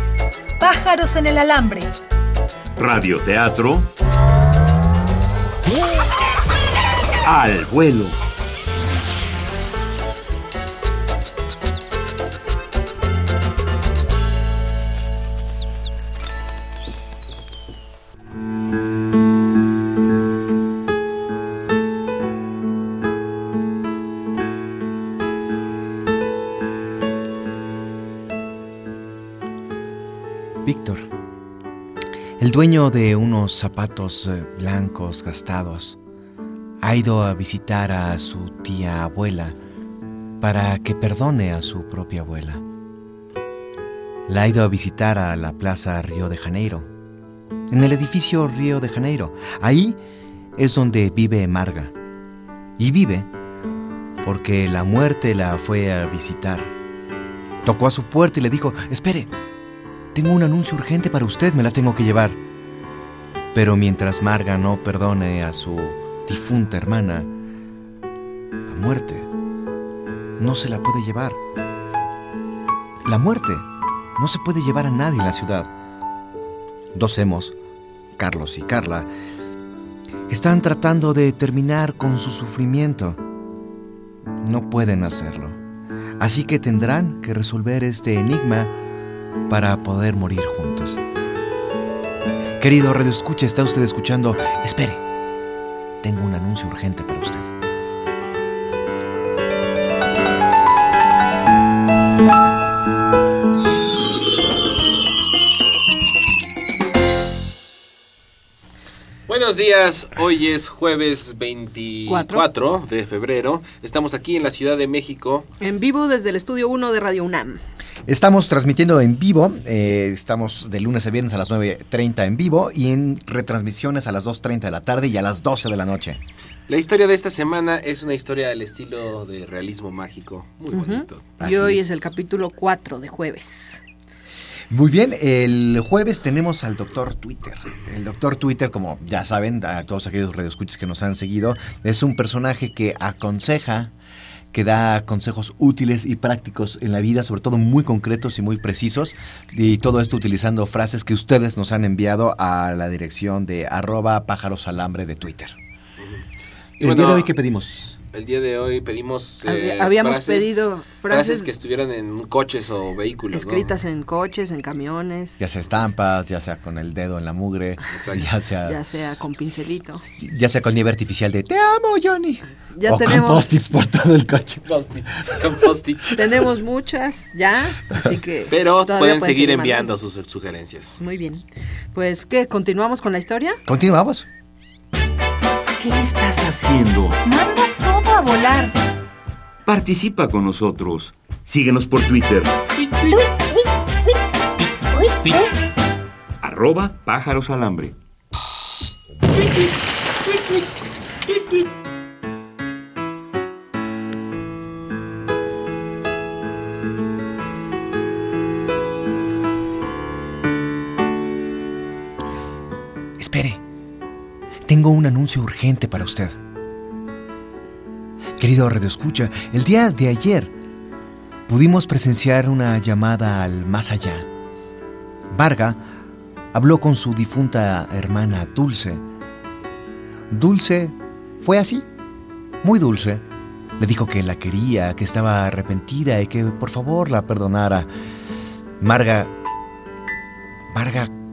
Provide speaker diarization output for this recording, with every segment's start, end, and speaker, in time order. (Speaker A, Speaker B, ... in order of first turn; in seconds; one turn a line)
Speaker A: 0.6-1.9
Speaker B: 2.8-3.9
Speaker B: 7.2-8.2
Speaker C: 30.6-31.1
Speaker C: 32.4-36.0
Speaker C: 36.8-39.6
Speaker C: 40.4-42.6
Speaker C: 44.3-46.9
Speaker C: 47.7-50.0
Speaker C: 50.6-51.9
Speaker C: 52.8-53.3
Speaker C: 54.2-56.7
Speaker C: 57.6-59.3
Speaker C: 60.1-62.4
Speaker C: 63.5-67.3
Speaker C: 68.7-69.3
Speaker C: 70.4-71.4
Speaker C: 73.0-75.7
Speaker C: 76.9-77.5
Speaker C: 78.2-79.1
Speaker C: 80.3-83.2
Speaker C: 84.4-85.6
Speaker C: 86.2-88.8
Speaker C: 89.5-91.0
Speaker C: 92.6-95.0
Speaker C: 96.0-97.5
Speaker D: 109.3-115.5
Speaker E: 112.1-112.4
Speaker E: 115.6-117.6
Speaker C: 118.1-126.2
Speaker D: 126.7-131.3
Speaker E: 130.7-133.8
Speaker C: 131.4-131.8
Speaker C: 134.7-143.9
Speaker C: 144.5-155.6
Speaker D: 156.8-157.3
Speaker C: 156.8-158.0
Speaker D: 158.1-163.7
Speaker E: 159.4-161.5
Speaker E: 163.3-165.4
Speaker C: 165.4-168.8
Speaker D: 167.9-168.3
Speaker E: 168.7-170.0
Speaker C: 170.2-174.7
Speaker E: 172.8-173.5
Speaker D: 174.7-176.2
Speaker C: 175.2-175.5
Speaker E: 176.1-179.9
Speaker D: 178.5-181.0
Speaker E: 181.0-183.6
Speaker C: 183.7-184.3
Speaker B: 185.8-187.2
Speaker A: 187.2-188.8
Speaker B: 189.7-192.6
Speaker D: 192.8-193.3
Speaker B: 195.2-195.5
Speaker B: 196.4-197.9
Speaker C: 213.2-213.6
Speaker C: 214.7-216.4
Speaker C: 218.4-220.5
Speaker C: 221.5-224.3
Speaker C: 225.3-225.8
Speaker C: 226.5-229.0
Speaker C: 230.3-231.9
Speaker C: 232.6-233.2
Speaker C: 233.8-237.9
Speaker C: 238.8-239.3
Speaker C: 240.7-241.1